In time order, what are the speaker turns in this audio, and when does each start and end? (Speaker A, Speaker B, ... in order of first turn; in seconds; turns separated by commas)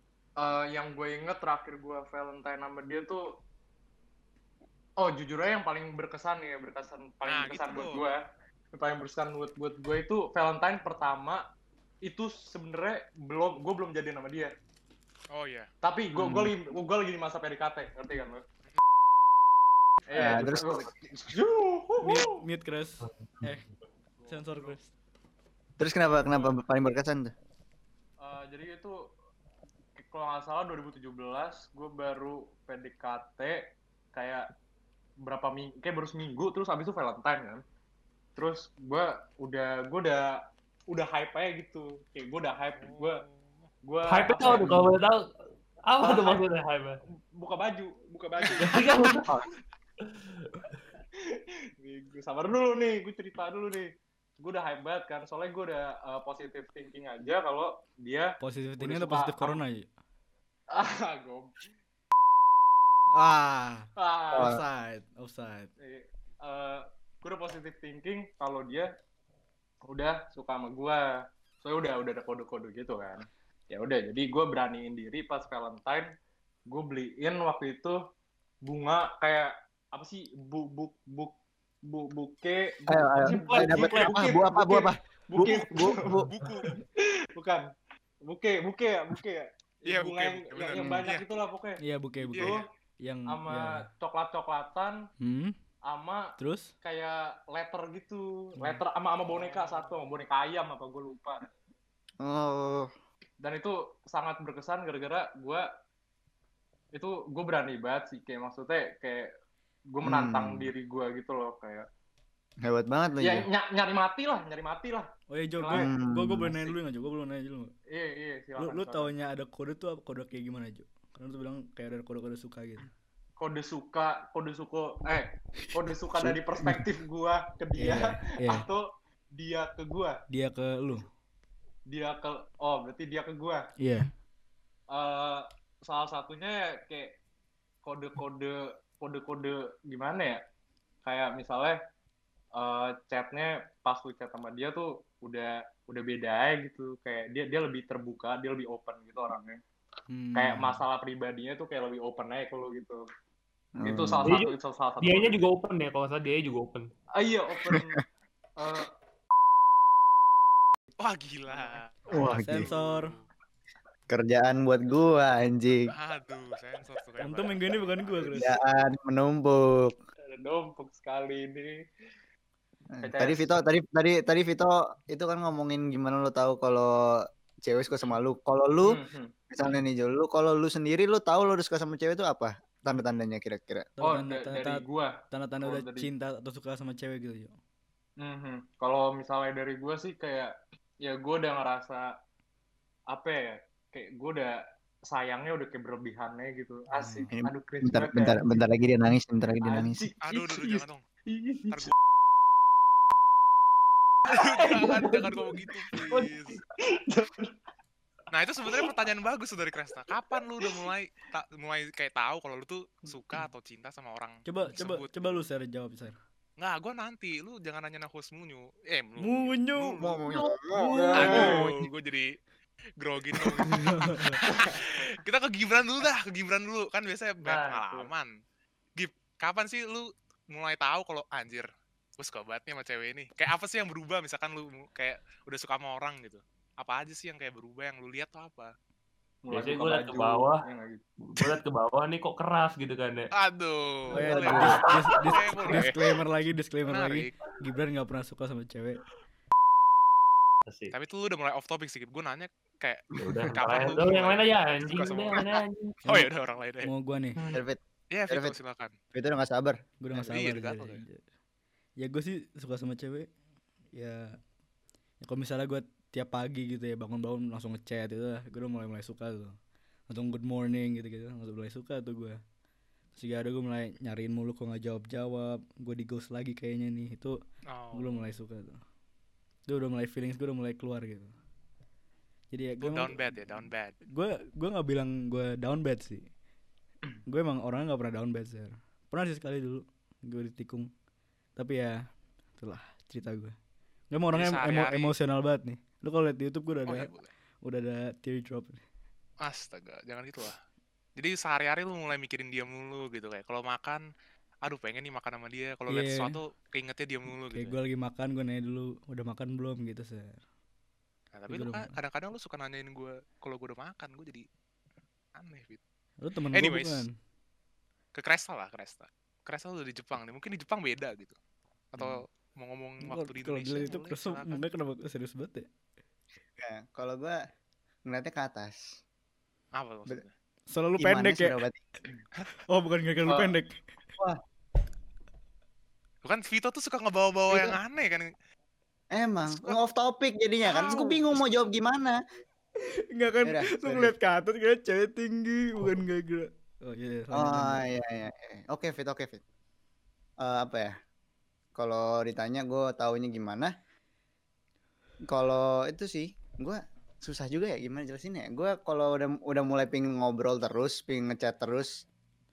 Speaker A: 0.4-3.3, Speaker A: 5.0-8.2, Speaker B: 7.2-8.0, Speaker A: 8.7-11.4, Speaker A: 12.0-14.5, Speaker B: 15.3-15.7, Speaker A: 15.8-18.4, Speaker A: 20.1-22.4, Speaker C: 20.1-20.9, Speaker D: 22.0-23.7, Speaker E: 23.0-23.5, Speaker A: 24.2-24.8, Speaker D: 24.3-24.9, Speaker C: 25.8-27.3, Speaker A: 26.2-26.6, Speaker A: 28.2-29.0, Speaker A: 30.0-34.5, Speaker A: 35.2-37.6, Speaker A: 38.4-40.4, Speaker A: 40.9-43.2, Speaker B: 42.8-43.3, Speaker A: 43.9-44.9, Speaker E: 44.0-45.3, Speaker E: 45.9-47.0, Speaker A: 46.0-46.5, Speaker A: 47.4-48.8, Speaker E: 48.6-49.3, Speaker E: 50.0-50.6, Speaker A: 51.3-53.9, Speaker A: 54.4-59.6, Speaker D: 58.4-59.9, Speaker A: 60.7-61.6, Speaker D: 63.1-65.7, Speaker A: 64.0-64.6, Speaker C: 64.3-64.6, Speaker A: 65.8-68.9, Speaker A: 69.9-71.0, Speaker A: 71.6-76.1, Speaker A: 76.7-78.0, Speaker A: 78.7-81.3, Speaker A: 81.9-86.8, Speaker C: 82.9-86.3, Speaker E: 83.5-84.1, Speaker B: 86.2-86.7, Speaker A: 87.4-87.7, Speaker A: 88.3-91.8, Speaker B: 89.9-91.2, Speaker C: 90.8-91.0, Speaker D: 91.8-93.8, Speaker B: 92.3-92.6, Speaker A: 92.4-92.6, Speaker A: 93.3-95.0, Speaker D: 95.2-95.6, Speaker A: 95.9-101.4, Speaker D: 96.4-96.7, Speaker D: 98.6-98.8, Speaker B: 99.5-99.8, Speaker C: 102.2-102.9, Speaker A: 103.4-105.7, Speaker A: 106.9-109.3, Speaker A: 109.9-111.9, Speaker C: 110.0-110.7, Speaker C: 112.6-113.5, Speaker A: 113.2-115.9, Speaker D: 115.3-117.7, Speaker C: 115.8-116.5, Speaker A: 117.9-119.1, Speaker D: 118.6-122.9, Speaker A: 123.4-128.8, Speaker D: 127.8-128.7, Speaker A: 129.3-130.2, Speaker D: 130.3-131.1, Speaker A: 131.9-133.7, Speaker D: 133.8-134.1, Speaker A: 134.9-137.2, Speaker A: 137.8-140.4, Speaker A: 141.1-141.8, Speaker A: 142.6-149.6, Speaker D: 150.1-150.8, Speaker A: 150.3-153.0, Speaker C: 153.8-154.3, Speaker A: 153.8-155.4, Speaker E: 154.2-156.9, Speaker A: 157.2-158.0, Speaker C: 157.7-158.0, Speaker A: 158.6-158.9, Speaker B: 161.0-163.2, Speaker C: 162.1-162.7, Speaker D: 162.2-163.2, Speaker C: 164.1-165.9, Speaker B: 165.9-168.2, Speaker D: 167.2-168.6, Speaker C: 168.3-169.9, Speaker A: 170.3-171.8, Speaker C: 172.9-183.9, Speaker A: 173.0-173.6, Speaker A: 178.8-179.3, Speaker D: 184.0-187.6, Speaker A: 184.0-186.1, Speaker A: 188.2-190.5, Speaker A: 191.0-192.1, Speaker A: 193.1-194.6, Speaker A: 195.1-198.6, Speaker D: 196.9-197.4, Speaker C: 197.3-200.1, Speaker A: 199.6-201.9, Speaker B: 200.2-201.0, Speaker A: 204.3-206.1, Speaker B: 204.3-206.6, Speaker E: 206.1-206.6, Speaker A: 206.8-207.5, Speaker B: 208.3-215.4, Speaker A: 210.3-210.9, Speaker D: 214.5-216.2, Speaker B: 216.6-220.2, Speaker D: 219.2-221.7, Speaker C: 220.0-221.5, Speaker A: 220.9-221.7, Speaker B: 221.2-222.3, Speaker B: 223.0-228.3, Speaker D: 223.6-224.4, Speaker E: 227.4-228.1, Speaker B: 229.0-231.7, Speaker B: 232.2-238.7, Speaker A: 239.4-241.0, Speaker E: 239.5-240.6, Speaker E: 241.3-243.3, Speaker B: 243.4-246.0, Speaker D: 244.1-249.0, Speaker A: 244.2-244.8, Speaker E: 244.4-245.3, Speaker B: 246.9-247.4, Speaker E: 250.7-250.9, Speaker B: 250.9-256.9, Speaker E: 253.2-256.1, Speaker D: 256.8-257.4, Speaker C: 257.5-258.6, Speaker B: 258.1-258.9, Speaker C: 259.1-259.8, Speaker D: 260.0-261.2, Speaker B: 260.3-261.0, Speaker D: 262.0-263.3, Speaker D: 263.9-264.4, Speaker D: 265.2-269.6, Speaker D: 270.1-272.4, Speaker D: 273.2-277.4, Speaker B: 277.7-278.2, Speaker D: 277.9-278.8, Speaker D: 279.7-281.3, Speaker D: 282.5-286.3, Speaker B: 282.8-284.0, Speaker D: 287.3-290.9, Speaker D: 291.6-292.0, Speaker D: 292.6-293.6, Speaker D: 294.1-297.1, Speaker B: 294.3-295.1, Speaker B: 296.9-297.3, Speaker D: 297.6-298.8, Speaker B: 299.4-300.6, Speaker B: 301.2-304.1, Speaker B: 304.6-307.8, Speaker D: 305.9-306.4, Speaker D: 307.5-310.4, Speaker B: 311.4-314.5, Speaker D: 311.5-311.9, Speaker B: 315.4-315.8, Speaker D: 316.2-317.1, Speaker B: 316.5-317.1, Speaker B: 318.1-321.4, Speaker B: 321.9-324.6, Speaker D: 323.1-325.7, Speaker C: 326.6-327.4, Speaker C: 328.1-329.0, Speaker B: 329.8-330.3, Speaker D: 330.7-331.6, Speaker C: 331.0-331.8, Speaker D: 332.7-333.8, Speaker A: 333.3-333.6, Speaker B: 336.2-338.3, Speaker C: 337.5-337.8, Speaker C: 339.1-342.2, Speaker B: 339.5-339.8, Speaker B: 340.6-341.4, Speaker D: 342.8-347.9, Speaker C: 343.4-344.1, Speaker C: 347.3-349.4, Speaker C: 350.4-350.9, Speaker C: 351.8-353.7, Speaker C: 355.3-362.0